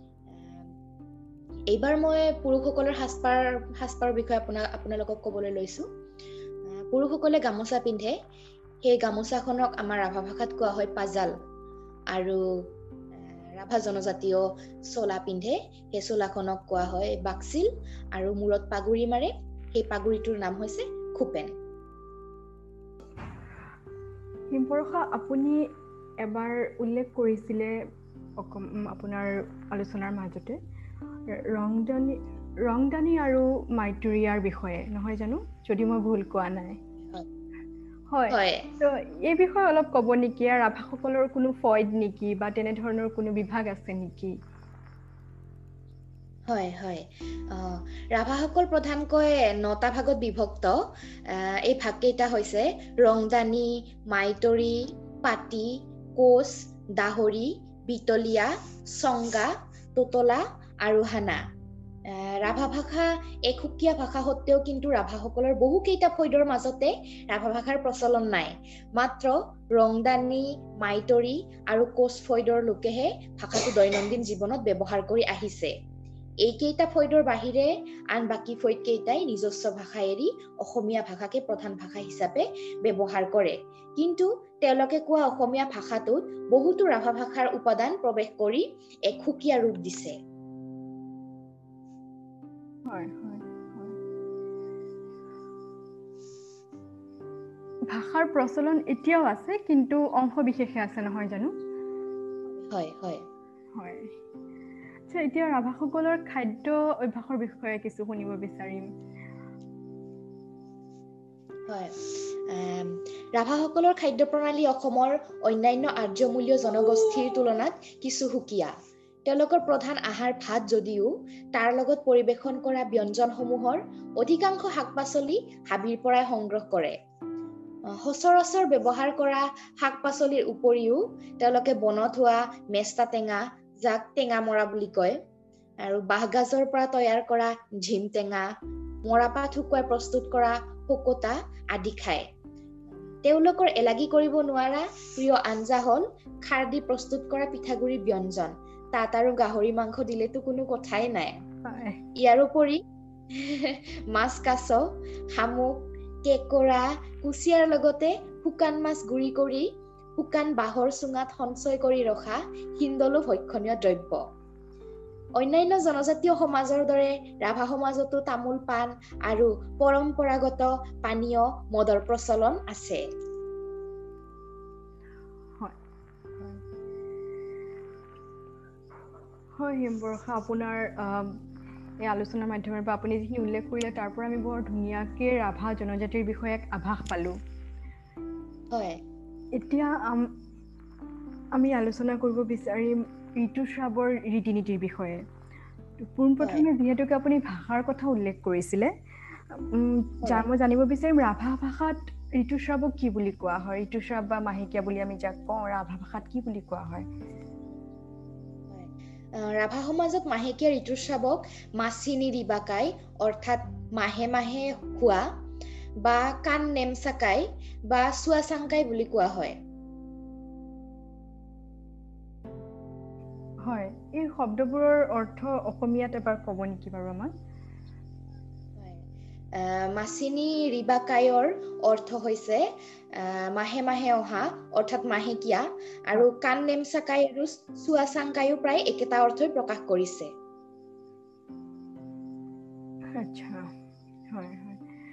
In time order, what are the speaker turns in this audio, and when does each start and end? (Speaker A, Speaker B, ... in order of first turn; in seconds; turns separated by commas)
Speaker A: 0.3-0.6, Speaker A: 1.7-5.8, Speaker A: 6.7-8.1, Speaker A: 8.8-11.3, Speaker A: 12.1-12.4, Speaker A: 13.6-21.5, Speaker B: 24.5-25.6, Speaker B: 26.2-27.7, Speaker B: 28.4-30.6, Speaker B: 31.3-36.8, Speaker B: 38.1-44.3, Speaker A: 38.3-38.6, Speaker A: 46.5-50.8, Speaker A: 51.3-61.4, Speaker A: 62.1-75.7, Speaker A: 76.4-90.1, Speaker B: 92.9-94.0, Speaker B: 97.9-101.5, Speaker A: 102.7-103.2, Speaker B: 103.8-104.1, Speaker B: 105.1-108.9, Speaker A: 111.7-118.7, Speaker A: 119.2-126.9, Speaker A: 127.9-135.2, Speaker A: 135.8-138.4, Speaker A: 139.0-142.2, Speaker A: 143.2-151.3, Speaker B: 151.6-152.0, Speaker A: 152.2-152.8, Speaker A: 153.3-154.8, Speaker A: 155.3-159.7, Speaker A: 160.2-164.2, Speaker A: 165.4-173.0, Speaker B: 176.4-176.6, Speaker B: 179.6-181.3, Speaker B: 182.1-187.3, Speaker A: 188.7-189.0, Speaker B: 189.6-190.2, Speaker B: 191.6-195.2, Speaker B: 196.0-198.9, Speaker A: 196.4-196.7, Speaker B: 199.5-207.1, Speaker A: 208.7-215.2, Speaker A: 216.0-219.5, Speaker B: 223.7-227.3, Speaker A: 228.8-229.0, Speaker A: 229.6-232.6, Speaker A: 233.2-240.3, Speaker B: 243.1-243.6, Speaker B: 244.3-244.8